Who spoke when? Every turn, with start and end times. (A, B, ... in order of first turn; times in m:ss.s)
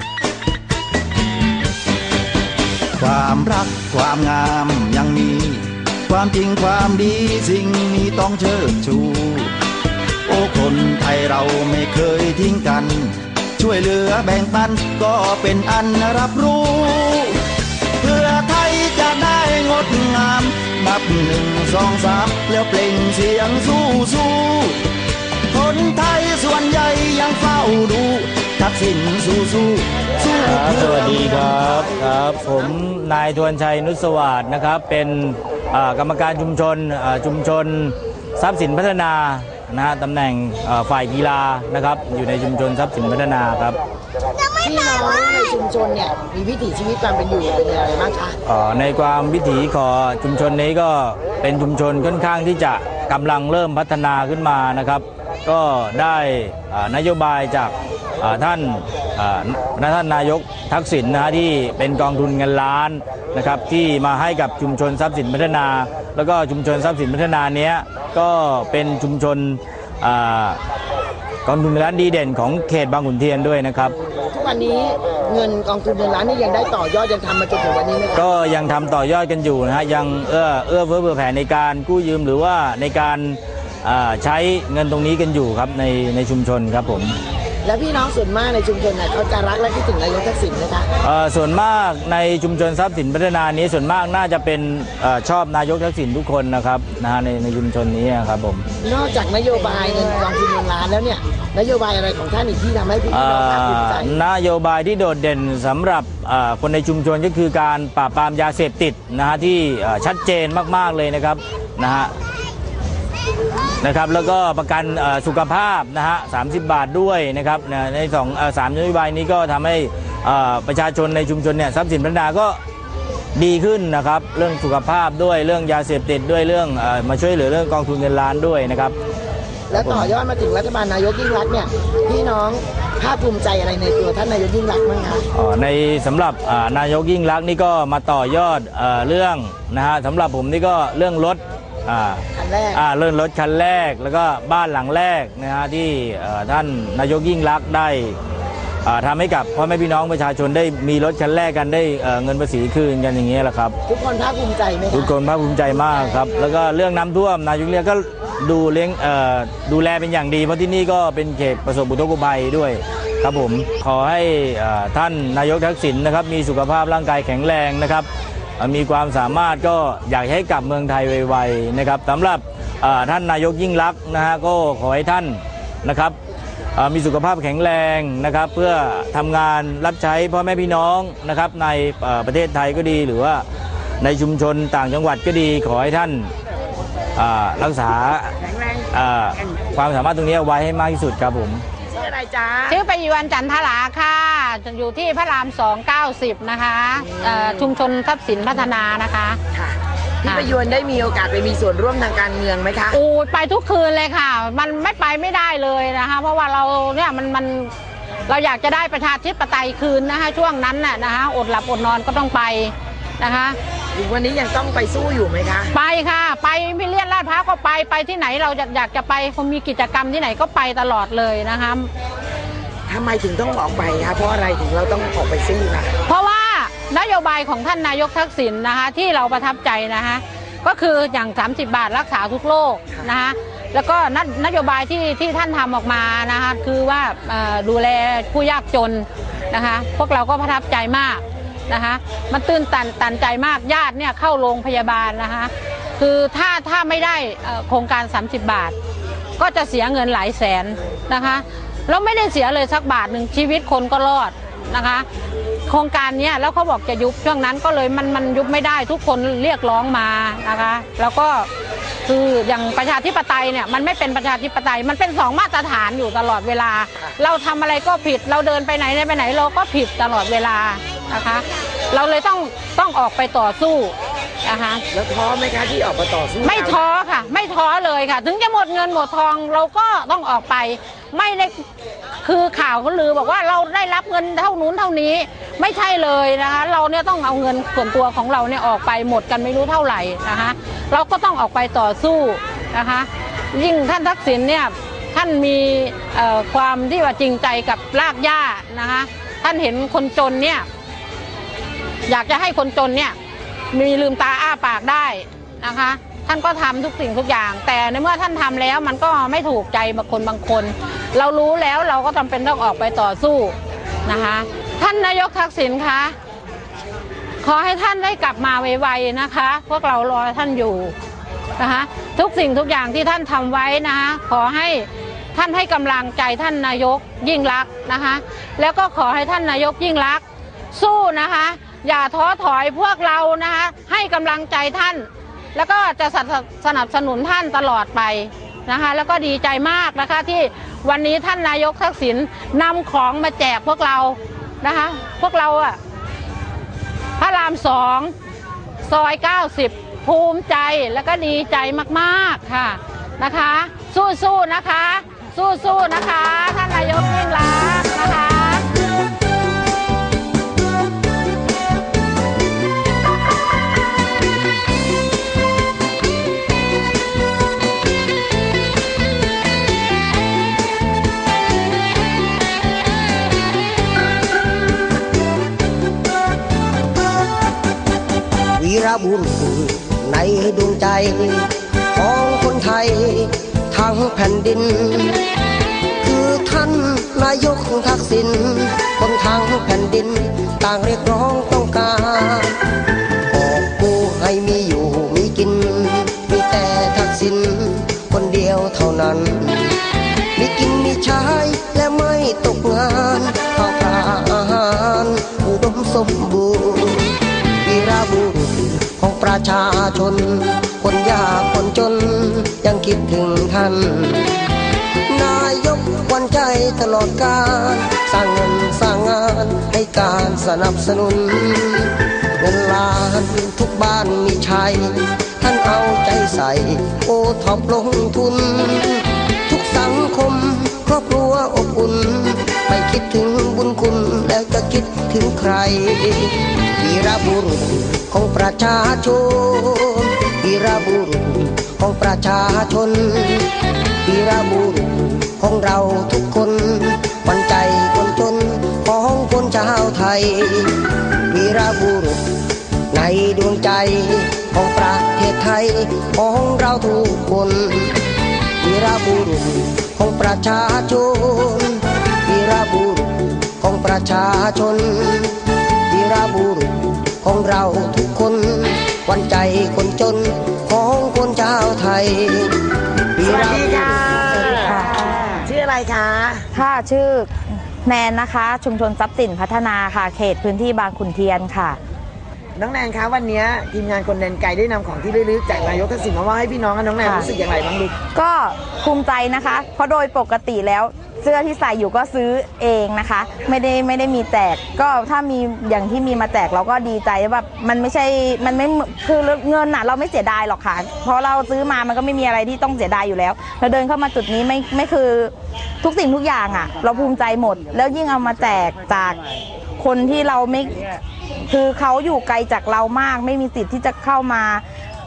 0:03.0-0:09.5 A
0:10.2-0:17.4 A
0:18.0-0:24.8 A
0:25.5-0:31.8 A
0:30.4-0:43.8 B
0:44.6-0:48.4 C
0:48.4-1:10.6 B
1:11.4-1:13.9 B
1:14.3-1:18.3 C
1:18.1-1:27.2 B
1:27.6-1:30.9 C
1:31.0-1:38.6 B
1:38.8-1:44.1 C
1:43.1-1:52.1 B
1:53.8-2:02.6 B
2:03.4-2:08.9 B
2:09.7-2:15.2 C
2:09.7-2:10.1 B
2:15.3-2:22.2 B
2:22.3-2:22.8 C
2:22.7-2:28.2 B
2:28.8-2:33.8 B
2:33.8-2:35.1 C
2:34.9-2:48.1 B
2:48.6-2:56.2 B
2:56.8-3:03.4 B
3:04.0-3:06.3 B
3:07.2-3:08.4 B
3:08.4-3:08.8 C
3:08.9-3:11.6 B
3:11.9-3:12.8 C
3:12.7-3:19.4 D
3:19.5-3:23.0 C
3:22.9-3:27.7 D
3:28.3-3:33.6 D
3:33.9-3:35.7 C
3:35.7-3:41.9 D
3:42.9-3:45.9 C
3:46.0-4:08.7 D
4:09.4-4:15.0 D
4:15.7-4:21.5 D
4:22.0-4:33.9 D
4:34.4-4:34.8 D
4:34.9-4:36.8 C
4:36.4-4:41.6 D
4:42.2-5:00.6 D
5:02.1-5:03.1 D
5:03.7-5:16.1 D
5:17.4-5:20.9 D
5:21.6-5:45.8 D
5:47.2-5:48.1 D
5:48.8-5:58.6 D
6:18.6-6:25.2 E
6:26.0-6:32.6 E
6:33.3-6:39.7 E
6:40.3-6:47.1 E
6:47.6-6:54.3 E
6:55.1-7:23.5 E
7:24.0-7:30.7 E
7:31.3-7:32.2 E
7:32.9-7:38.0 E
7:38.6-7:52.5 E
7:53.1-7:54.5 E
7:53.2-7:56.5 C
7:54.5-7:55.0 F
7:56.5-7:57.3 F
7:57.8-8:01.8 F
8:02.6-8:07.9 C
8:08.1-8:29.2 F
8:29.8-8:34.6 F